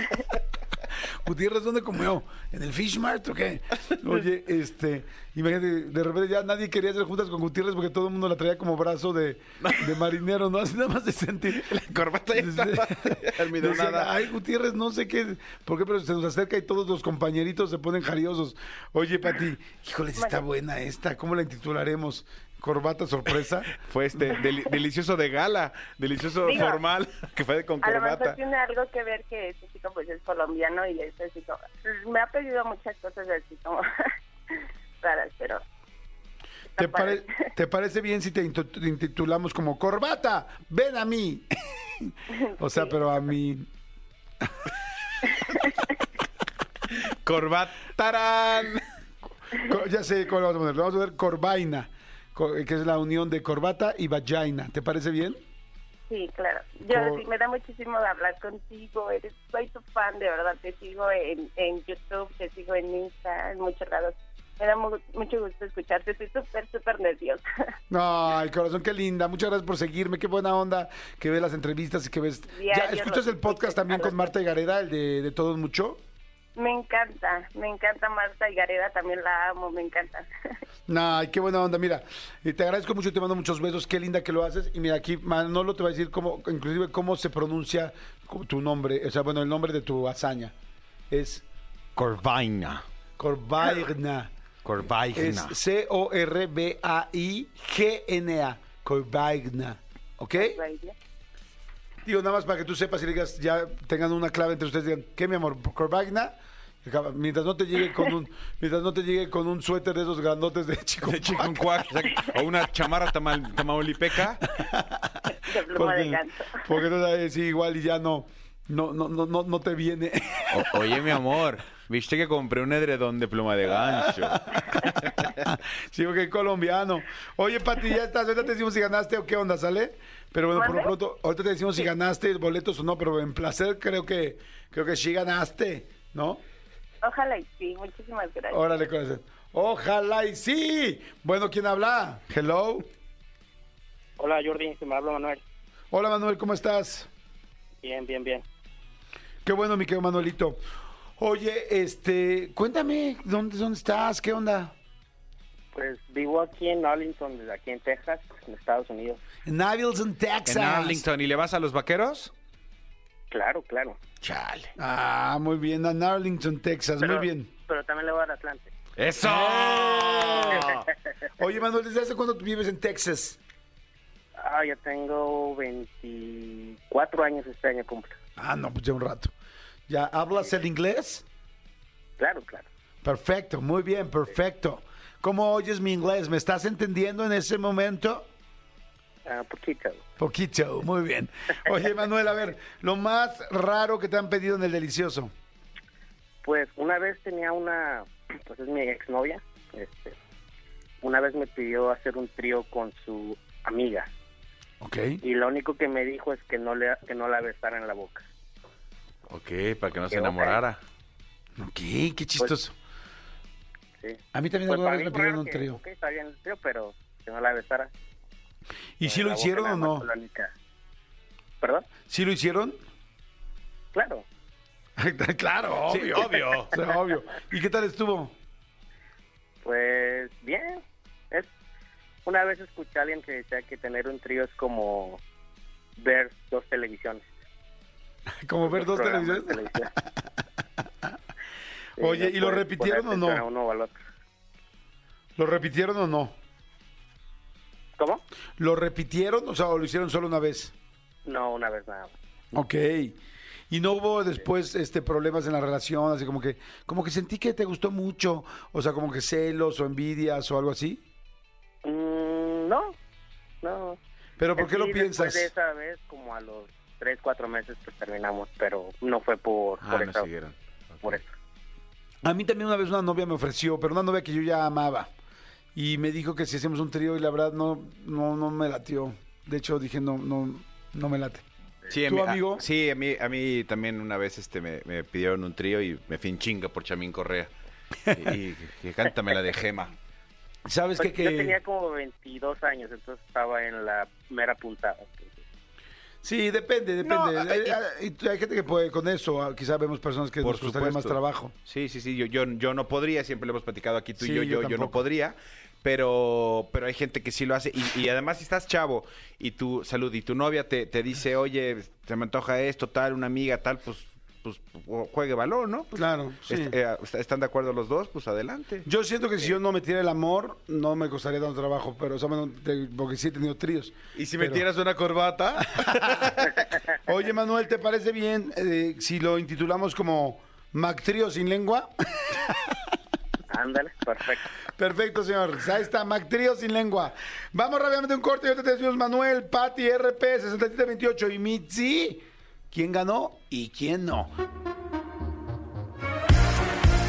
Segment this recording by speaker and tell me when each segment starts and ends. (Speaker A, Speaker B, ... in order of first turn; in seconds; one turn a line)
Speaker A: 1.2-23.8
Speaker B: 9.6-10.0
Speaker B: 11.6-14.2
Speaker C: 20.1-20.4
Speaker B: 23.8-28.4
Speaker C: 26.4-26.8
Speaker C: 27.8-33.8
Speaker C: 35.0-35.6
Speaker C: 36.7-37.3
Speaker A: 36.8-43.7
Speaker C: 42.5-42.9
Speaker B: 46.9-48.8
Speaker A: 49.6-55.4
Speaker C: 56.1-67.4
Speaker A: 56.9-57.2
Speaker A: 67.9-76.0
Speaker C: 72.5-74.2
Speaker C: 76.5-80.3
Speaker A: 80.9-90.5
Speaker A: 91.1-91.4
Speaker B: 92.0-92.8
Speaker A: 93.2-94.3
Speaker B: 94.6-95.5
Speaker A: 95.1-100.6
Speaker C: 100.3-101.0
Speaker A: 102.0-111.7
Speaker B: 111.0-114.5
Speaker A: 114.5-115.1
Speaker C: 115.3-116.6
Speaker A: 115.7-121.1
Speaker B: 120.5-125.4
Speaker A: 123.8-136.4
Speaker C: 130.6-130.9
Speaker C: 137.0-138.6
Speaker A: 138.5-142.9
Speaker D: 144.2-145.4
Speaker A: 145.9-147.1
Speaker D: 147.8-148.4
Speaker A: 149.4-150.6
Speaker A: 151.2-154.7
Speaker D: 155.7-159.2
Speaker A: 159.4-161.0
Speaker B: 160.4-162.3
Speaker D: 163.3-164.0
Speaker B: 164.2-164.7
Speaker A: 164.8-167.5
Speaker D: 167.0-168.7
Speaker B: 169.0-170.8
Speaker A: 169.2-170.8
Speaker D: 170.2-170.6
Speaker A: 171.4-173.4
Speaker D: 174.4-178.2
Speaker A: 178.4-179.3
Speaker A: 179.9-181.2
Speaker D: 182.2-182.7
Speaker A: 183.0-188.3
Speaker D: 189.2-190.0
Speaker A: 190.2-195.3
Speaker D: 196.4-200.2
Speaker D: 201.0-204.1
Speaker A: 204.8-205.2
Speaker D: 205.2-208.2
Speaker B: 209.3-210.8
Speaker D: 210.1-210.6
Speaker A: 211.6-212.7
Speaker D: 214.0-217.9
Speaker A: 214.3-215.8
Speaker A: 219.0-220.1
Speaker D: 219.0-220.5
Speaker D: 221.6-221.9
Speaker A: 222.1-222.8
Speaker D: 223.9-224.2
Speaker A: 225.0-228.3
Speaker B: 225.9-226.7
Speaker D: 229.6-231.5
Speaker D: 232.2-235.2
Speaker D: 236.0-237.2
Speaker A: 238.4-239.6
Speaker D: 238.7-239.9
Speaker D: 242.0-244.0
Speaker A: 242.0-243.4
Speaker A: 245.4-246.3
Speaker D: 248.0-248.2
Speaker A: 248.6-250.7
Speaker D: 251.2-252.1
Speaker A: 252.5-253.2
Speaker A: 253.7-261.0
Speaker D: 261.8-263.0
Speaker D: 263.6-264.0
Speaker A: 264.4-265.5
Speaker D: 264.6-270.3
Speaker B: 269.8-271.2
Speaker D: 271.0-271.3
Speaker A: 272.2-275.1
Speaker A: 275.7-281.4
Speaker B: 281.9-287.5
Speaker A: 282.1-282.6
Speaker B: 288.1-289.9
Speaker A: 290.6-291.6
Speaker D: 291.0-295.4
Speaker A: 296.2-301.5
Speaker B: 297.0-297.8
Speaker B: 300.4-318.9
Speaker A: 304.2-305.0
Speaker A: 315.9-316.7
Speaker A: 318.8-324.6
Speaker B: 324.1-326.7
Speaker A: 325.6-326.1
Speaker A: 327.0-332.5
Speaker D: 333.5-334.5
Speaker A: 334.7-344.3